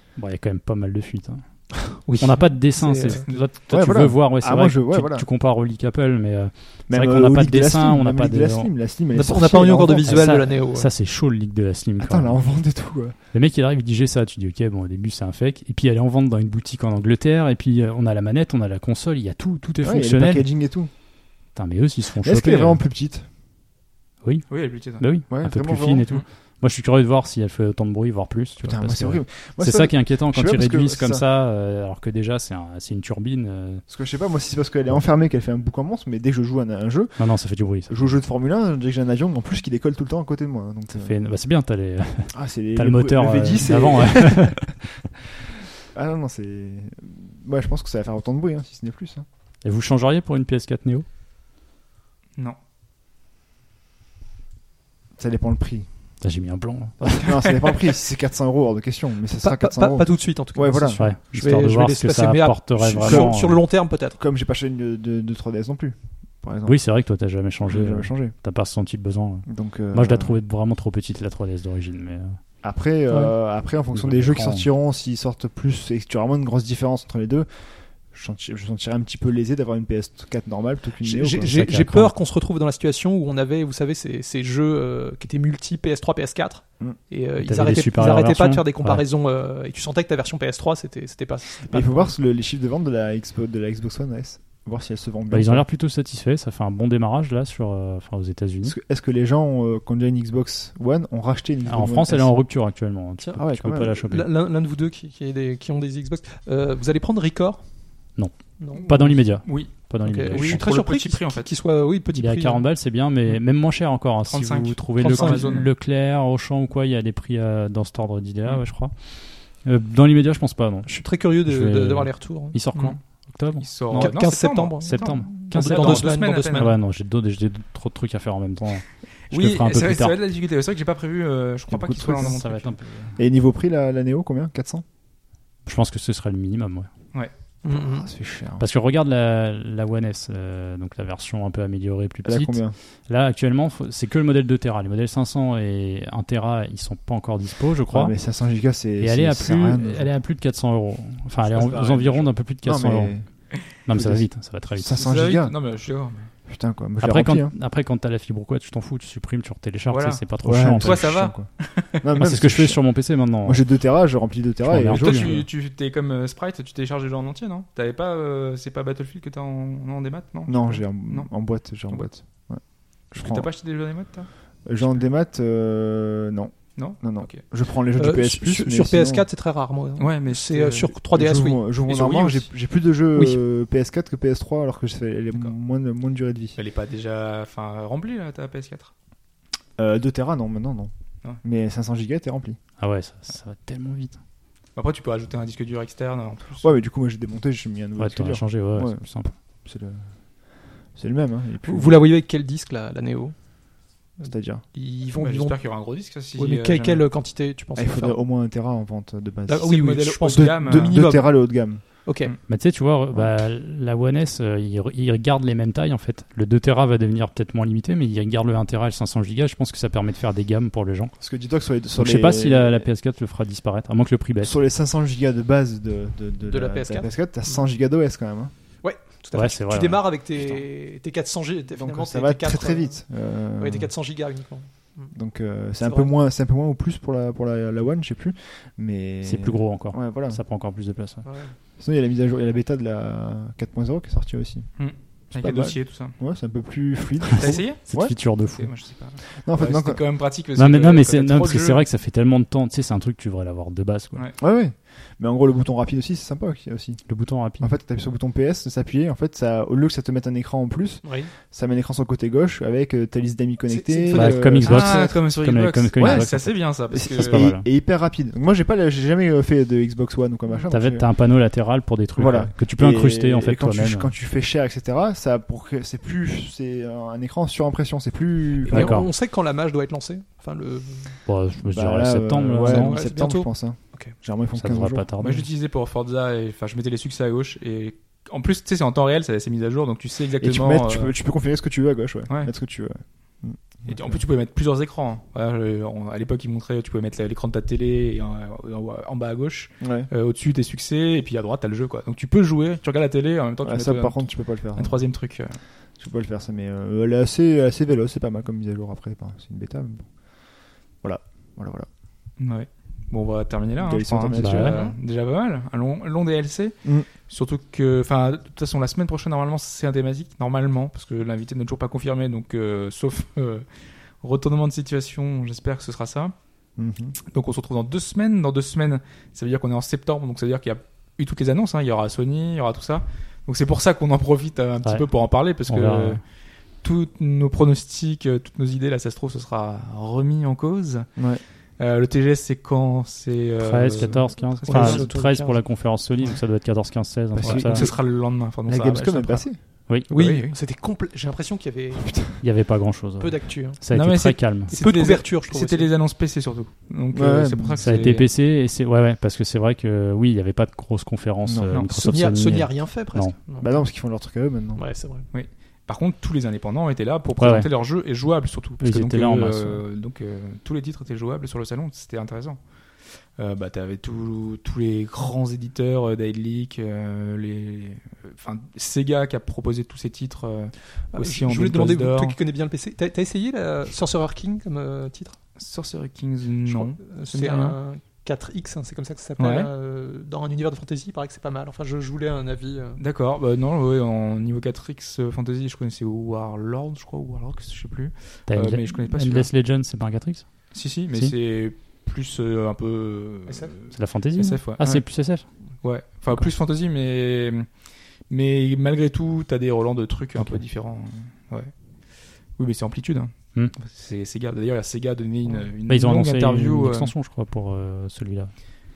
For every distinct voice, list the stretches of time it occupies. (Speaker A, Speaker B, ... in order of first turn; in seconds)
Speaker A: 0.2-1.4, 2.2-8.7, 10.0-12.4, 13.3-20.5, 21.5-22.8, 24.2-33.8, 37.2-38.1, 40.9-44.8, 49.6-51.0, 56.2-57.2, 61.0-63.6, 66.7-72.4, 73.9-74.7, 81.5-82.1, 87.4-89.0, 95.3-98.7, 101.7-104.3, 108.2-110.6, 112.1-124.2, 124.8-130.2, 131.7-133.2, 135.7-136.9, 138.6-148.2, 149.0-153.2, 153.8-155.1, 157.0-161.2, 162.2-163.6, 164.6-165.4, 192.8-194.2, 198.0-199.3, 212.5-221.1, 221.9-224.5, 229.3-230.2, 239.2-241.2, 247.3-248.7, 250.5-254.2, 257.1-257.7, 264.1-267.6, 270.7-274.1, 278.7-279.1, 281.2-283.0, 284.6-285.5, 314.4-314.8, 335.7-336.2, 343.6-347.9, 352.4-354.7, 357.8-363.3, 367.4-367.7, 368.8-369.8, 398.5-400.4, 403.9-405.4, 410.4-410.6, 415.9-418.5
Speaker B: 2.0-3.2, 9.1-10.9, 59.4-64.2, 81.0-92.2, 103.9-107.7, 108.6-109.3, 110.0-112.6, 115.0-115.5, 120.8-122.6, 123.9-126.7, 137.6-138.1, 178.0-181.6, 201.6-203.5, 204.2-205.8, 206.3-208.2, 209.5-212.3, 226.4-227.1, 228.8-233.0, 233.6-235.1, 235.8-236.1, 241.2-241.5, 261.0-261.3, 263.6-265.1, 278.6-281.1, 282.6-284.1, 344.1-345.7, 350.1-352.1, 353.2-353.8, 354.7-355.9, 362.0-363.7, 364.8-365.2, 381.1-385.4, 386.6-393.0, 403.5-403.7
Speaker C: 3.7-5.2, 6.9-10.3, 12.0-13.2, 19.8-20.9, 22.2-23.3, 25.3-26.0, 28.6-31.2, 33.9-37.3, 37.9-41.1, 42.3-44.8, 45.9-49.2, 55.2-55.9, 57.0-61.0, 63.0-63.3, 64.2-66.8, 67.6-68.3, 69.5-70.4, 72.6-77.5, 78.1-81.5, 91.7-95.6, 98.6-102.3, 103.4-104.0, 133.2-134.8, 137.7-138.7, 142.2-142.8, 147.9-150.1, 151.5-153.2, 153.9-155.5, 156.5-157.5, 160.4-161.5, 162.0-162.8, 163.4-165.4, 170.5-172.6, 173.1-173.5, 174.7-179.2, 181.1-186.6, 189.8-192.6, 196.6-199.1, 199.6-200.1, 200.9-201.9, 204.2-204.6, 207.8-209.7, 210.2-211.8, 213.1-213.4, 221.2-222.9, 224.4-228.5, 231.7-233.9, 235.1-240.4, 241.8-244.7, 245.3-248.2, 249.4-250.0, 254.4-265.1, 266.0-271.1, 272.1-279.0, 281.6-285.1, 290.4-294.2, 299.8-300.1, 303.6-305.0, 306.0-310.1, 311.0-311.9, 313.8-314.9, 326.8-327.1, 341.2-341.4, 347.3-348.0, 348.6-349.6, 352.0-352.4, 357.1-357.8, 361.4-361.8, 363.6-364.8
Speaker D: 24.5-25.0, 109.4-111.5, 114.2-115.7, 123.6-126.7, 129.3-132.8, 154.9-156.3, 159.9-162.0, 164.9-171.3, 173.2-175.0, 176.8-177.4, 180.0-180.9, 181.9-182.5, 186.6-188.9, 194.8-196.7, 205.1-207.0, 209.6-210.9, 244.8-246.2, 247.4-247.8, 248.5-251.8, 264.6-267.5, 285.2-291.1, 293.9-305.6, 312.4-323.6, 324.2-326.3, 327.3-336.2, 336.8-341.2, 341.8-345.1, 347.4-349.5, 350.1-350.5, 353.9-358.3, 361.7-362.1, 365.3-372.6, 373.4-382.4, 385.6-387.8, 389.4-389.7, 393.0-399.5, 400.7-405.0, 405.8-407.7, 408.3-411.7, 412.6-417.1